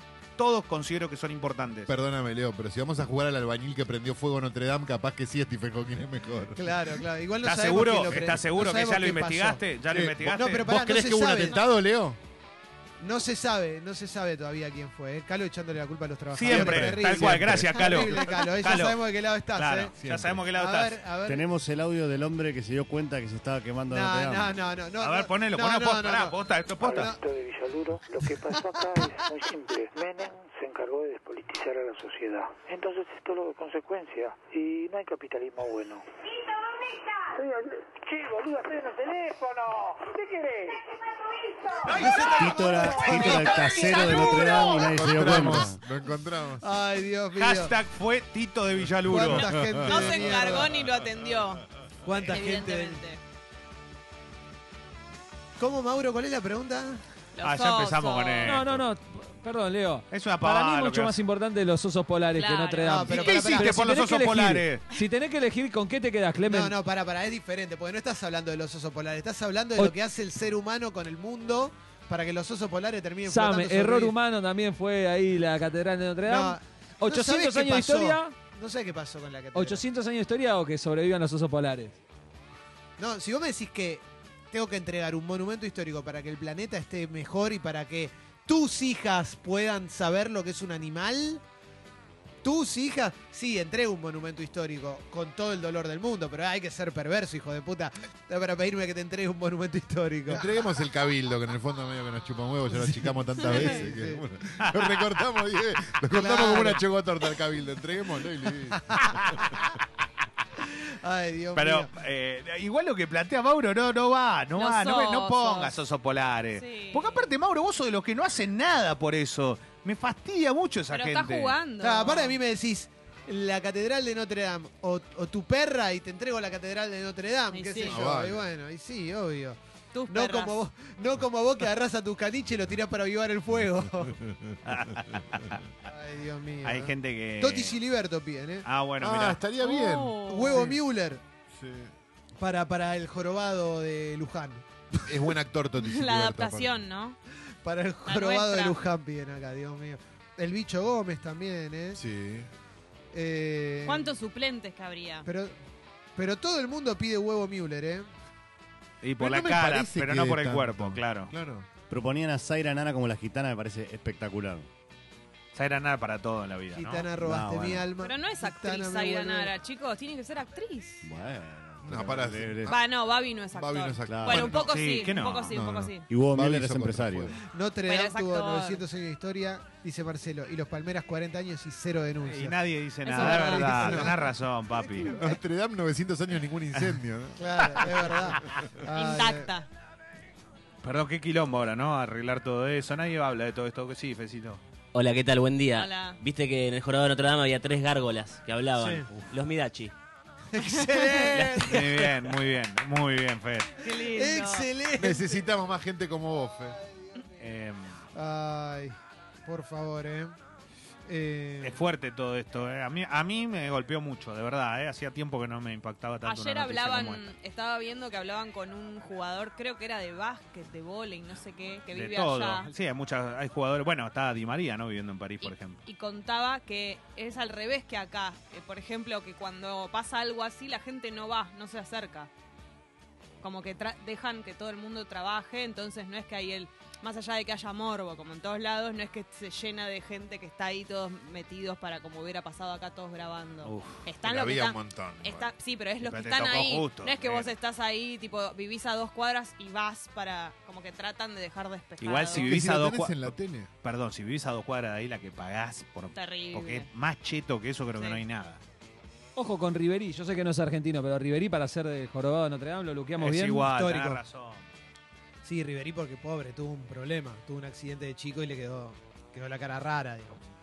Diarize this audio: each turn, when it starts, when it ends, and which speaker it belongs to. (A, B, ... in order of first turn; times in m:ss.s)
0:00.4-0:01.9 A
0:01.9-0:06.7 B
0:06.6-0:09.6 C
0:07.4-0:10.7 A
0:09.9-0:12.2 B
0:10.3-0:11.6 C
0:13.0-0:19.9 C
0:16.3-0:19.0 A
0:16.4-0:17.9 B
0:19.5-0:21.0 A
0:20.0-0:20.4 B
0:20.5-0:21.5 C
0:21.2-0:24.6 D
0:23.9-0:27.2 C
0:25.0-0:27.1 A
0:26.8-0:36.0 E
0:28.2-0:29.3 C
0:38.1-0:40.6 E
0:41.9-0:42.3 A
0:41.9-0:44.6 C
0:42.3-0:45.8 D
0:43.0-0:43.3 A
0:44.9-0:46.6 B
0:46.6-0:47.8 C
0:47.4-0:49.7 A
0:49.0-0:50.8 C
0:49.3-0:50.2 B
0:49.7-0:51.6 F
0:52.0-0:53.0 C
0:52.2-0:53.2 F
0:55.6-0:57.0 C
0:57.4-0:58.6 F
0:57.4-0:58.7 A
0:58.4-1:06.8 G
1:00.1-1:01.2 A
1:02.4-1:03.4 F
1:02.8-1:03.8 C
1:03.2-1:04.8 A
1:06.5-1:14.2 C
1:13.2-1:18.4 G
1:16.2-1:19.8 C
1:19.5-1:22.0 G
1:23.0-1:31.4 C
1:32.4-1:40.5 C
1:40.3-1:48.8 B
1:42.7-1:44.2 C
1:44.6-1:45.0 A
1:46.1-1:46.8 C
1:48.7-1:49.4 C
1:49.4-1:49.6 A
1:50.6-1:51.9 C
1:51.6-2:01.6 A
1:54.6-1:55.9 F
1:56.5-1:57.3 F
2:00.9-2:02.4 F
2:01.8-2:14.2 C
2:07.5-2:08.0 F
2:07.9-2:08.5 B
2:09.9-2:10.6 F
2:14.2-2:14.5 B
2:14.7-2:15.6 A
2:15.8-2:18.7 C
2:16.6-2:17.8 A
2:18.6-2:19.4 A
2:19.0-2:20.7 B
2:19.6-2:20.7 F
2:20.3-2:21.2 C
2:21.5-2:21.9 B
2:22.4-2:25.4 C
2:25.1-2:26.8 B
2:25.8-2:27.2 F
2:27.6-2:32.0 C
2:28.1-2:28.8 F
2:32.0-2:32.5 B
2:33.1-2:34.2 C
2:33.8-2:35.3 F
2:35.2-2:35.6 C
2:36.2-2:38.1 C
2:39.0-2:41.3 A
2:39.2-2:41.7 B
2:41.9-2:44.7 D
2:45.5-2:47.1 A
2:46.7-2:49.5 C
2:47.2-2:47.9 D
2:48.0-2:51.0 F
2:51.0-2:52.8 D
2:51.8-2:54.8 B
2:52.6-2:56.1 F
2:54.1-2:54.5 D
2:54.6-2:55.6 A
2:55.5-2:57.4 B
2:56.1-2:57.4 D
2:57.4-3:04.3 C
2:57.8-2:58.8 F
3:02.2-3:05.2 A
3:03.0-3:04.1 F
3:04.9-3:05.4 C
3:05.0-3:08.2 B
3:07.4-3:09.5 C
3:07.6-3:08.0 A
3:08.9-3:09.7 F
3:10.8-3:14.6 A
3:14.9-3:19.9 H
3:15.7-3:16.2 F
3:18.8-3:19.1 C
3:20.5-3:22.3 C
3:20.8-3:21.2 F
3:21.3-3:21.8 H
3:21.7-3:23.8 A
3:23.8-3:24.7 F
3:23.8-3:25.4 C
3:25.0-3:26.8 B
3:27.4-3:28.0 A
3:28.1-3:30.4 C
3:31.1-3:31.8 C
3:31.6-3:37.3 A
3:36.2-3:42.7 F
3:41.9-3:45.8 A
3:45.4-3:52.3 F
3:53.4-4:12.5 F
4:03.6-4:04.0 A
4:04.2-4:05.5 B
4:06.0-4:07.6 A
4:12.0-4:18.6 A
4:12.4-4:13.7 B
4:16.1-4:16.9 F
4:17.9-4:18.2 F
4:19.4-4:23.7 G
4:23.2-4:24.7 A
4:23.7-4:24.2 C
4:25.4-4:30.4 C